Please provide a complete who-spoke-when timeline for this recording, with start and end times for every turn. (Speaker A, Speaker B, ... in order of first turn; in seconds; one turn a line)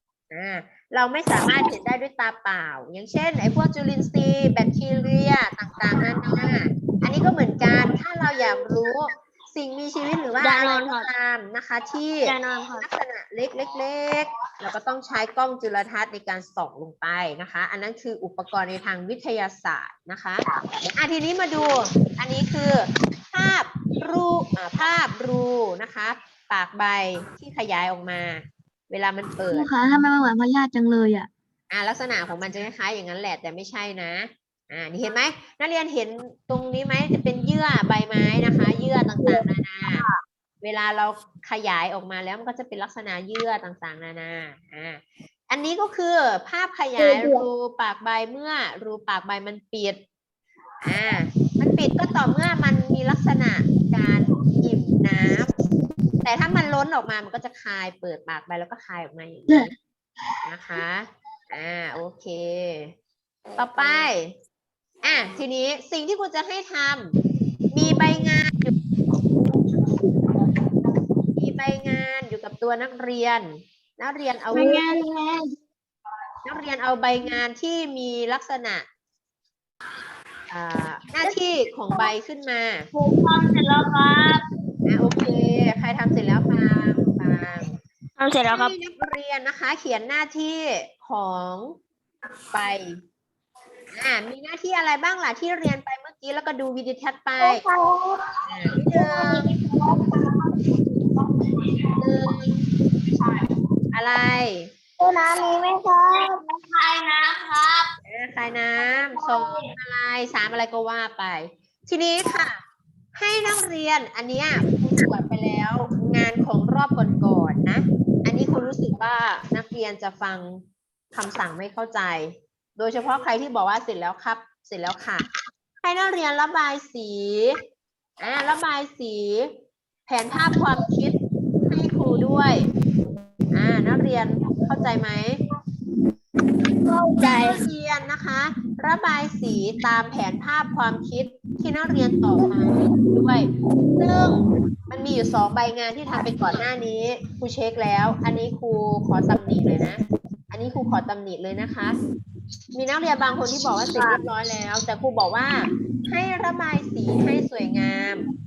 Speaker A: 0.3-20.4
Speaker B: 10.4-11.1
Speaker B: 12.2-12.9
Speaker A: 21.0-29.7
Speaker C: 29.5-31.3
Speaker A: 31.7-40.1
Speaker A: 40.6-50.0
Speaker C: 47.0-47.4
Speaker A: 50.8-55.5
Speaker A: 56.2-59.7
Speaker A: 60.5-62.9
Speaker A: 63.6-64.3
Speaker B: 63.8-64.1
Speaker A: 65.0-67.1
Speaker A: 67.7-68.8
Speaker A: 71.4-74.8
Speaker C: 74.5-75.5
Speaker A: 76.5-78.9
Speaker A: 80.5-82.9
Speaker B: 82.9-84.4
Speaker A: 84.9-87.8
Speaker B: 88.2-88.8
Speaker A: 88.5-91.8
Speaker A: 92.5-93.0
Speaker A: 93.9-97.6
Speaker B: 97.4-100.5
Speaker A: 98.5-99.5
Speaker B: 102.0-102.5
Speaker B: 103.1-103.4
Speaker A: 103.9-104.7
Speaker B: 105.0-107.9
Speaker A: 108.0-112.6
Speaker B: 109.1-109.7
Speaker A: 113.2-120.6
Speaker A: 121.1-125.3
Speaker A: 125.8-127.6
Speaker A: 128.2-129.5
Speaker A: 130.1-131.2
Speaker A: 131.7-132.7
Speaker A: 133.5-135.4
Speaker A: 137.2-152.0
Speaker A: 152.7-158.2